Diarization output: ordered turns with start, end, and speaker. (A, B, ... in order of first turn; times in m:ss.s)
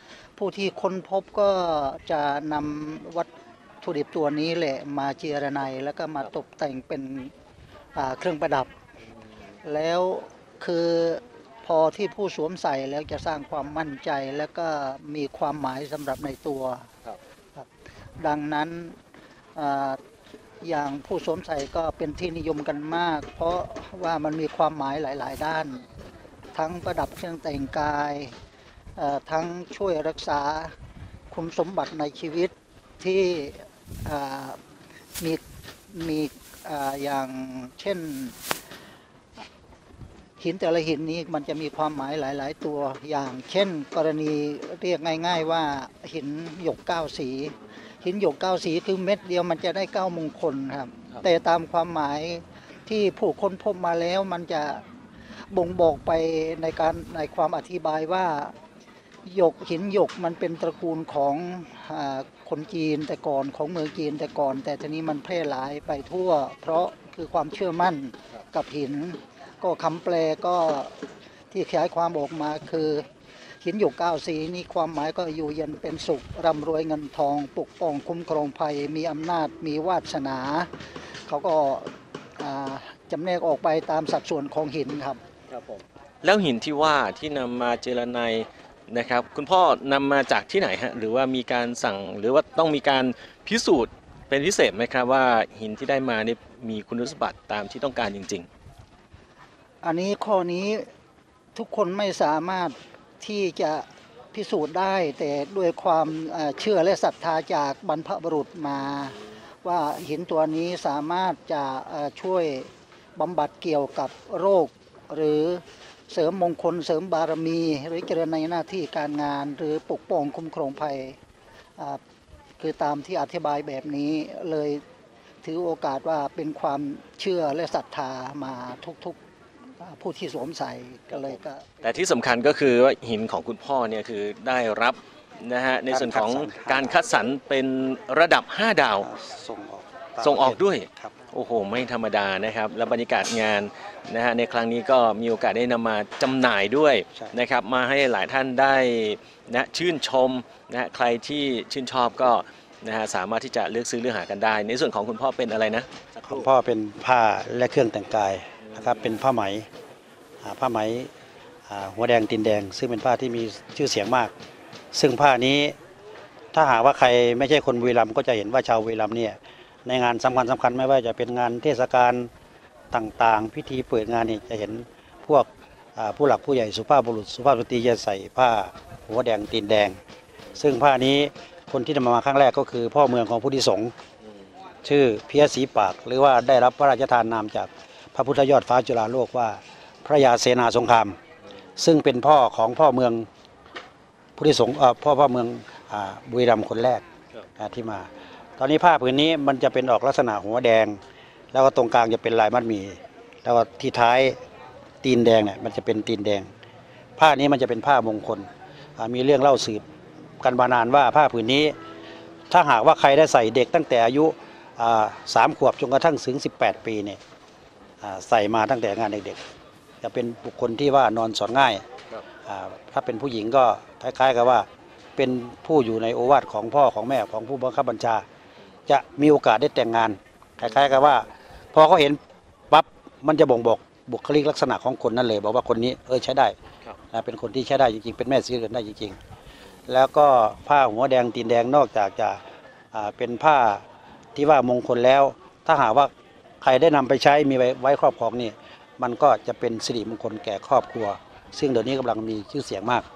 0:00.4-0:03.3 A
0:03.8-0:07.3 A
0:07.9-0:08.7 A
0:09.6-0:16.9 A
0:18.2-0:19.0 A
0:19.5-0:20.0 A
0:20.6-0:25.8 A
0:26.5-0:28.3 A
0:29.0-0:30.7 A
0:31.3-0:34.6 A
0:35.2-0:38.4 A
0:40.4-0:54.8 A
0:55.5-0:58.5 A
0:59.2-1:11.0 A
1:11.5-1:13.0 A
1:13.6-1:20.7 A
1:21.2-1:25.2 A
1:25.5-1:38.5 B
1:39.8-1:40.9 A
1:41.5-2:01.2 A
2:02.6-2:04.8 A
2:05.4-2:09.2 A
2:09.8-2:11.8 A
2:11.1-2:19.1 B
2:15.9-2:17.0 C
2:19.0-2:21.1 C
2:20.2-2:36.5 B
2:36.3-2:39.7 C
2:38.6-2:39.2 B
2:40.4-2:41.1 C
2:41.7-2:44.3 C
2:44.9-2:45.8 C
2:46.5-2:52.3 C
2:52.9-3:00.0 C
3:00.5-3:03.9 C
3:04.8-3:11.2 C
3:11.8-3:13.3 C
3:14.4-3:17.0 C
3:17.6-3:21.0 C
3:21.5-3:24.4 C
3:25.0-3:26.5 C
3:27.2-3:29.8 C
3:30.4-3:31.8 C
3:32.5-3:37.2 C
3:38.0-3:39.4 C
3:40.0-3:41.8 C
3:42.4-3:48.2 C
3:48.9-3:52.2 C
3:50.6-3:51.2 B
3:52.7-3:56.6 C
3:57.1-3:59.2 C
3:59.9-4:02.4 C
4:02.9-4:03.8 C
4:04.3-4:06.1 C
4:06.6-4:13.0 C